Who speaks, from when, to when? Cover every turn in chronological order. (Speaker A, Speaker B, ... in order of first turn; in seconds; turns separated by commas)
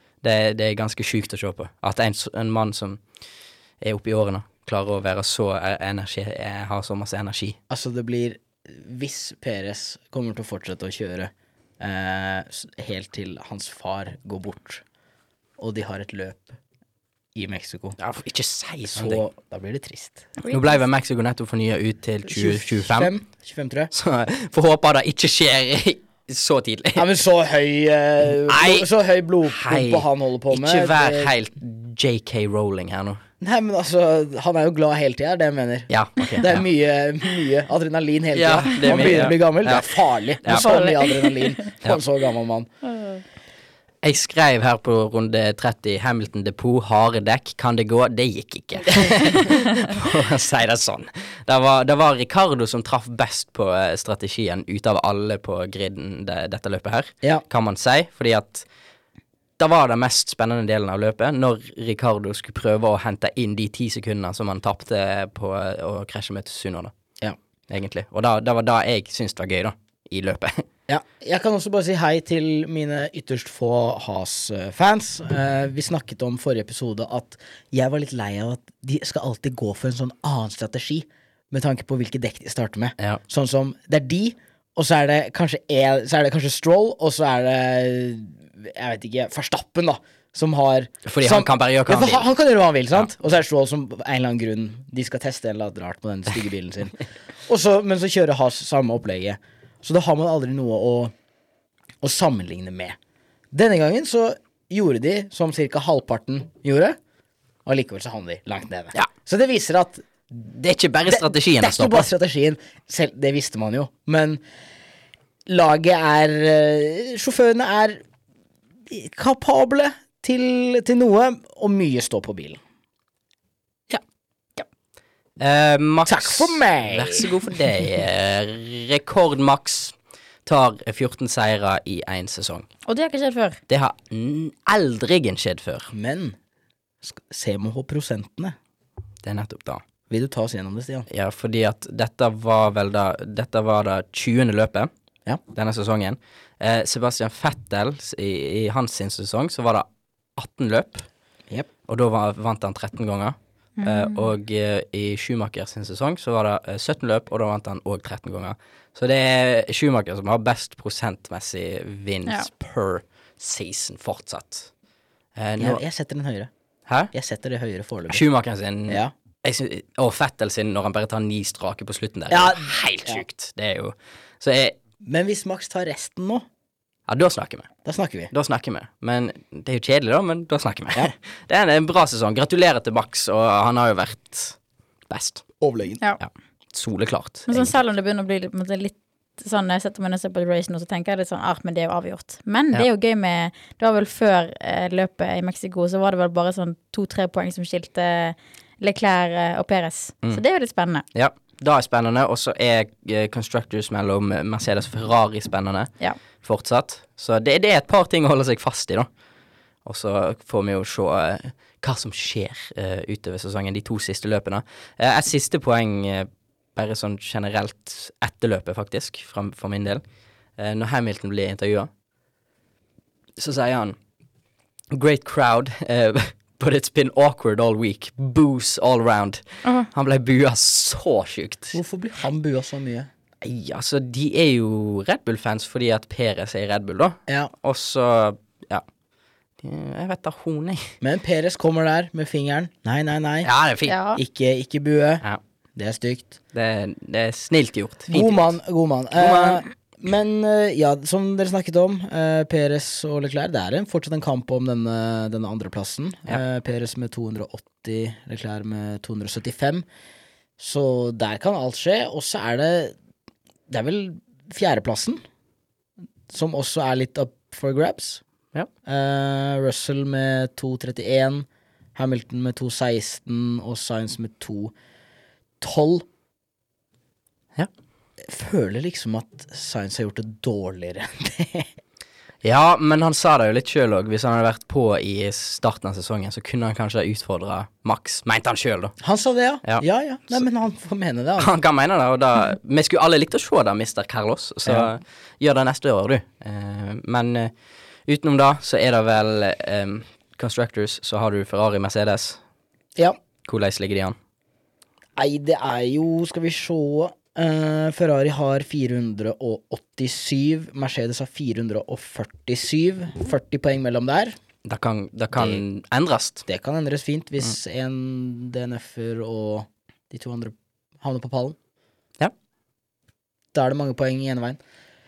Speaker A: 0.2-3.0, Speaker A: 3.8-7.6, Speaker B: 7.7-14.8, Speaker B: 15.6-16.6, Speaker B: 17.3-18.0, Speaker A: 18.0-19.2, Speaker B: 18.9-20.3, Speaker C: 20.4-20.8, Speaker A: 20.5-23.1, Speaker B: 22.2-23.9, Speaker A: 23.9-27.1, Speaker B: 26.9-31.3, Speaker A: 28.5-28.9, Speaker A: 29.4-33.2, Speaker B: 33.4-42.7, Speaker A: 35.9-36.6, Speaker A: 38.3-39.9, Speaker C: 40.5-41.6, Speaker C: 42.9-43.2, Speaker A: 44.0-58.6, Speaker A: 59.6-66.9, Speaker A: 67.7-70.6, Speaker B: 70.9-101.1, Speaker A: 91.0-92.3, Speaker B: 102.0-103.0, Speaker B: 103.5-107.0, Speaker B: 107.7-110.0, Speaker A: 110.3-112.1, Speaker B: 111.1-114.4, Speaker B: 115.5-118.0, Speaker B: 118.9-122.6, Speaker A: 125.4-132.7, Speaker B: 126.0-127.3, Speaker C: 132.9-133.6, Speaker A: 133.7-135.9, Speaker B: 135.9-136.3, Speaker B: 137.0-138.6, Speaker A: 139.2-139.8, Speaker B: 140.1-141.1, Speaker A: 141.1-144.9, Speaker A: 145.5-151.1, Speaker A: 151.9-164.7, Speaker C: 153.8-154.3, Speaker A: 165.3-165.8, Speaker B: 165.6-166.5, Speaker A: 166.9-167.1, Speaker B: 167.1-168.2, Speaker A: 168.1-174.7, Speaker B: 172.3-173.2, Speaker B: 175.0-176.4, Speaker A: 177.1-177.7, Speaker B: 177.8-178.3, Speaker A: 178.3-184.6, Speaker A: 185.1-185.5, Speaker B: 185.6-186.0, Speaker A: 186.2-187.8, Speaker C: 187.5-201.0, Speaker A: 201.1-209.1, Speaker A: 209.8-220.0, Speaker A: 220.6-221.9, Speaker A: 223.4-223.9, Speaker A: 224.9-231.8, Speaker B: 231.7-233.1, Speaker A: 233.4-238.8, Speaker B: 237.3-237.5, Speaker A: 239.6-240.9, Speaker B: 241.0-243.5, Speaker A: 243.4-243.9, Speaker C: 243.8-244.2, Speaker B: 244.1-245.2, Speaker B: 245.8-246.3, Speaker A: 246.5-248.5, Speaker B: 248.1-259.9, Speaker A: 249.2-249.6, Speaker B: 260.6-262.9, Speaker B: 263.7-265.2, Speaker B: 266.3-268.2, Speaker B: 268.9-274.7, Speaker B: 275.6-276.1, Speaker B: 278.2-281.7, Speaker A: 282.4-289.0, Speaker B: 289.0-291.5, Speaker A: 289.6-290.4, Speaker A: 291.4-297.5, Speaker A: 298.1-302.4, Speaker A: 303.4-304.1, Speaker B: 305.1-314.4, Speaker A: 314.6-316.4, Speaker B: 315.3-315.6, Speaker B: 316.5-321.6, Speaker B: 323.5-324.6